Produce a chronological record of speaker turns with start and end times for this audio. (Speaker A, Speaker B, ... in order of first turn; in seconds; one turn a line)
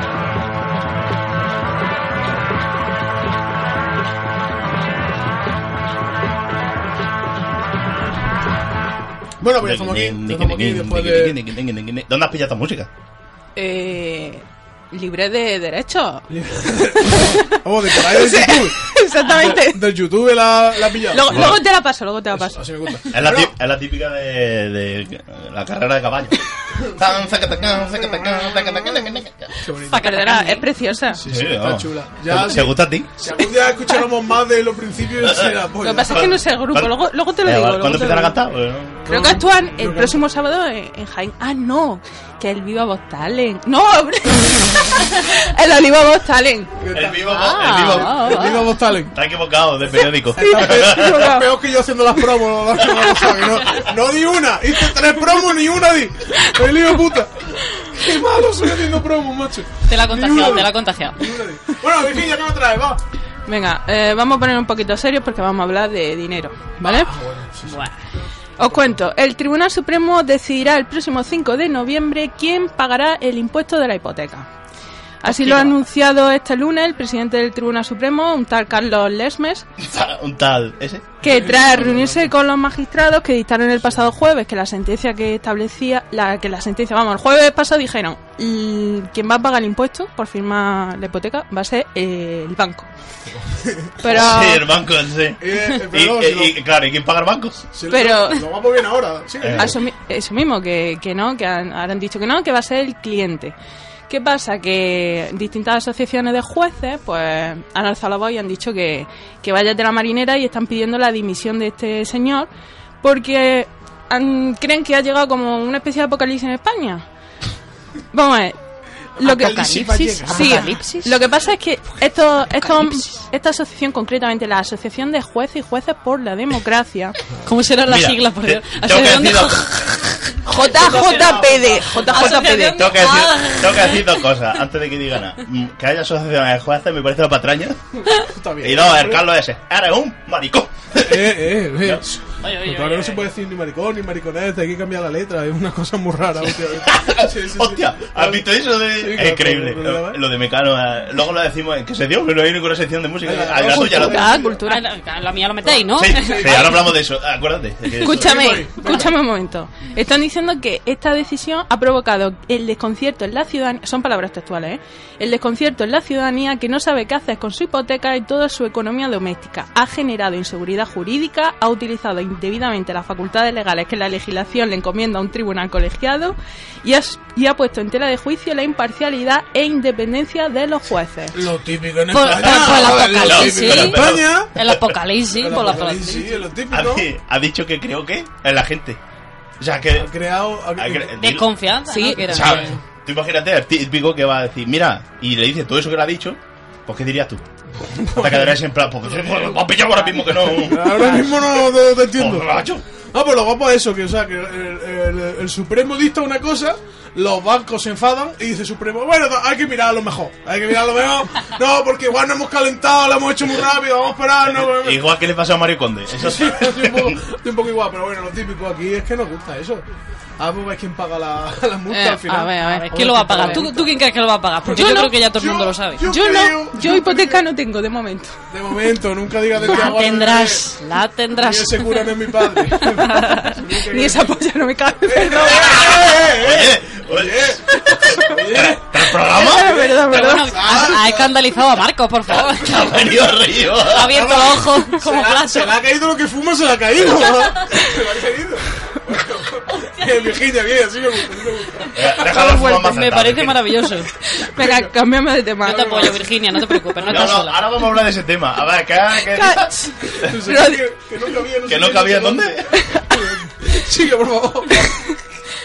Speaker A: 9.4-11.4
Speaker B: 9.6-12.9
Speaker C: 13.6-16.2
Speaker A: 16.3-21.6
Speaker C: 17.1-17.4
Speaker C: 17.9-19.9
Speaker C: 21.1-22.6
Speaker B: 21.3-21.6
Speaker A: 22.4-23.5
Speaker B: 23.1-29.5
Speaker A: 27.6-30.0
Speaker D: 29.8-30.6
Speaker C: 30.0-31.2
Speaker A: 31.1-36.4
Speaker B: 31.3-33.1
Speaker B: 35.2-39.0
Speaker C: 35.8-38.4
Speaker A: 39.0-40.2
Speaker C: 39.1-46.7
Speaker A: 46.8-47.4
Speaker B: 46.9-48.4
Speaker D: 47.3-48.8
Speaker C: 47.8-48.5
Speaker A: 48.0-49.1
Speaker B: 49.1-51.3
Speaker A: 50.3-63.0
Speaker C: 50.4-51.5
Speaker D: 59.9-61.3
Speaker C: 63.5-67.1
Speaker A: 66.8-67.9
Speaker D: 67.6-67.9
Speaker C: 68.6-74.5
Speaker C: 75.2-79.7
Speaker B: 75.3-75.7
Speaker B: 79.8-81.1
Speaker C: 81.2-92.9
Speaker A: 81.3-82.3
Speaker A: 93.3-93.9
Speaker C: 94.0-94.7
Speaker B: 94.0-97.6
Speaker A: 95.4-96.6
Speaker A: 97.7-99.8
Speaker C: 97.9-98.4
Speaker B: 99.4-99.7
Speaker C: 99.5-103.5
Speaker C: 104.1-112.5
Speaker C: 113.0-117.0
Speaker C: 118.1-118.5
Speaker C: 119.2-127.2
Speaker D: 119.2-121.2
Speaker A: 119.2-120.8
Speaker D: 122.6-123.1
Speaker D: 127.4-134.5
Speaker B: 127.8-130.0
Speaker C: 130.4-132.9
Speaker B: 130.5-137.8
Speaker A: 138.1-139.2
Speaker B: 138.6-142.0
Speaker A: 141.0-150.2
Speaker D: 142.4-143.3
Speaker B: 146.5-154.4
Speaker A: 153.2-154.6
Speaker C: 153.8-154.8
Speaker D: 154.7-156.9
Speaker B: 155.9-158.6
Speaker A: 156.1-156.8
Speaker A: 158.0-159.1
Speaker C: 158.0-181.4
Speaker D: 158.2-158.9
Speaker A: 181.3-184.5
Speaker D: 182.1-186.5
Speaker B: 182.3-185.0
Speaker A: 185.3-187.1
Speaker B: 186.7-189.0
Speaker B: 189.6-190.1
Speaker A: 189.9-191.1
Speaker B: 190.7-191.5
Speaker D: 191.2-192.8
Speaker C: 191.9-192.6
Speaker B: 192.3-197.4
Speaker A: 192.4-192.7
Speaker A: 197.8-198.6
Speaker B: 198.1-202.8
Speaker A: 199.1-199.5
Speaker A: 200.2-215.1
Speaker D: 200.9-201.3
Speaker B: 214.4-217.2
Speaker A: 216.2-219.8
Speaker A: 220.4-223.9
Speaker C: 221.9-222.9
Speaker D: 222.6-226.1
Speaker C: 223.4-223.7
Speaker A: 224.6-227.4
Speaker C: 224.7-225.1
Speaker C: 226.0-228.3
Speaker A: 228.5-230.6
Speaker D: 229.5-233.6
Speaker A: 231.3-234.3
Speaker C: 233.9-235.8
Speaker A: 235.1-241.4
Speaker B: 235.5-239.8
Speaker C: 239.3-240.7
Speaker D: 240.1-242.9
Speaker B: 242.3-244.1
Speaker D: 243.8-245.8
Speaker A: 244.1-252.7
Speaker B: 251.9-253.8
Speaker D: 252.3-254.1
Speaker C: 254.2-256.1
Speaker A: 254.5-254.9
Speaker A: 255.6-256.3
Speaker D: 255.6-257.6
Speaker A: 256.9-257.5
Speaker B: 257.1-260.3
Speaker C: 259.3-260.8
Speaker A: 260.2-264.9
Speaker B: 261.6-262.7